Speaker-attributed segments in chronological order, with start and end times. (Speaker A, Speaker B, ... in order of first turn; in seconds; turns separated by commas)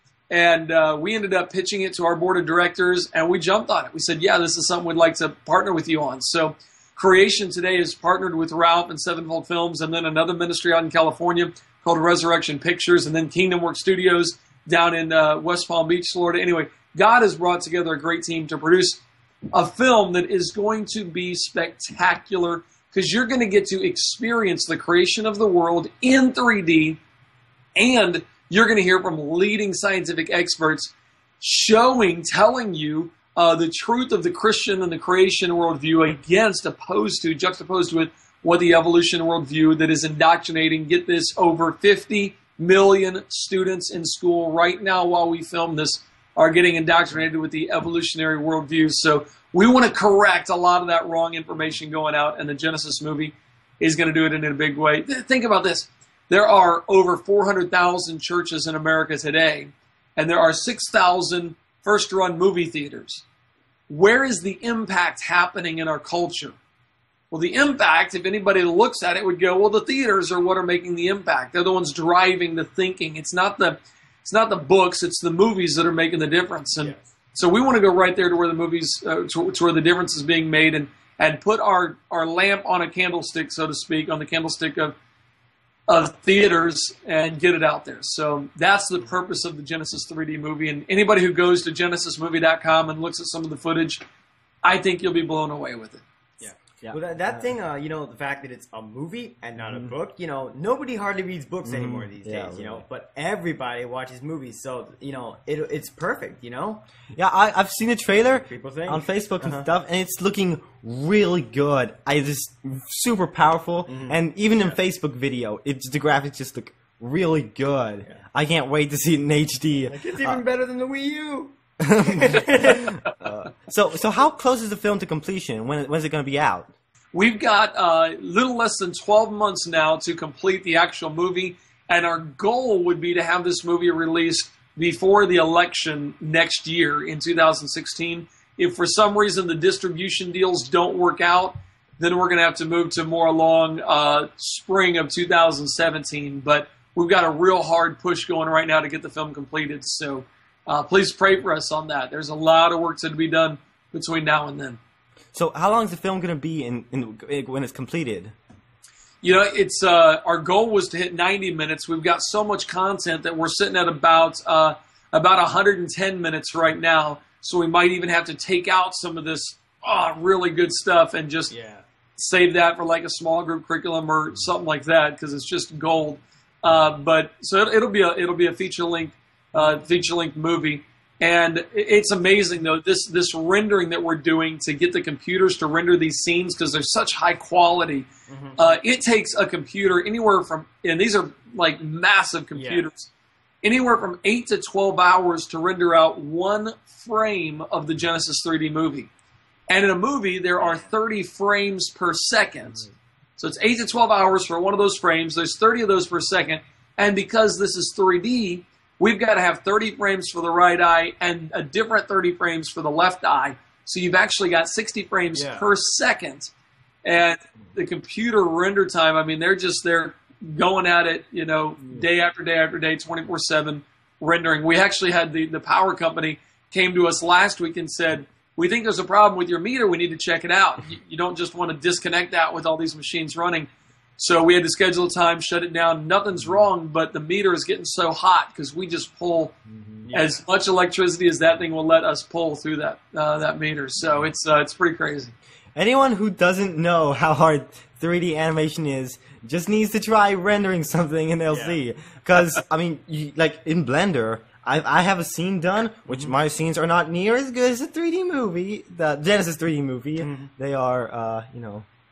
Speaker A: 0.3-19.0, Speaker A: 19.5-27.0, Speaker A: 27.8-63.2, Speaker A: 63.9-66.6, Speaker A: 67.3-85.0, Speaker B: 76.8-77.0, Speaker A: 85.9-94.0, Speaker A: 94.6-96.0, Speaker B: 96.4-106.8, Speaker C: 96.8-97.5, Speaker C: 99.6-99.9, Speaker C: 101.6-102.8, Speaker C: 107.1-120.4, Speaker B: 108.2-109.7, Speaker B: 113.9-114.8, Speaker B: 119.9-123.0, Speaker C: 121.8-126.7, Speaker A: 127.1-154.8, Speaker C: 155.3-158.3, Speaker A: 159.2-171.5, Speaker B: 171.5-171.8, Speaker A: 172.2-193.1, Speaker B: 188.3-188.6, Speaker B: 192.6-192.9, Speaker A: 193.6-199.1, Speaker A: 199.7-202.8, Speaker B: 200.6-200.9, Speaker A: 203.4-216.5, Speaker B: 215.3-215.7, Speaker A: 217.1-239.6, Speaker B: 240.0-240.4, Speaker A: 240.1-245.3, Speaker C: 245.8-261.9, Speaker B: 251.5-251.8, Speaker B: 256.1-256.3, Speaker B: 260.2-260.5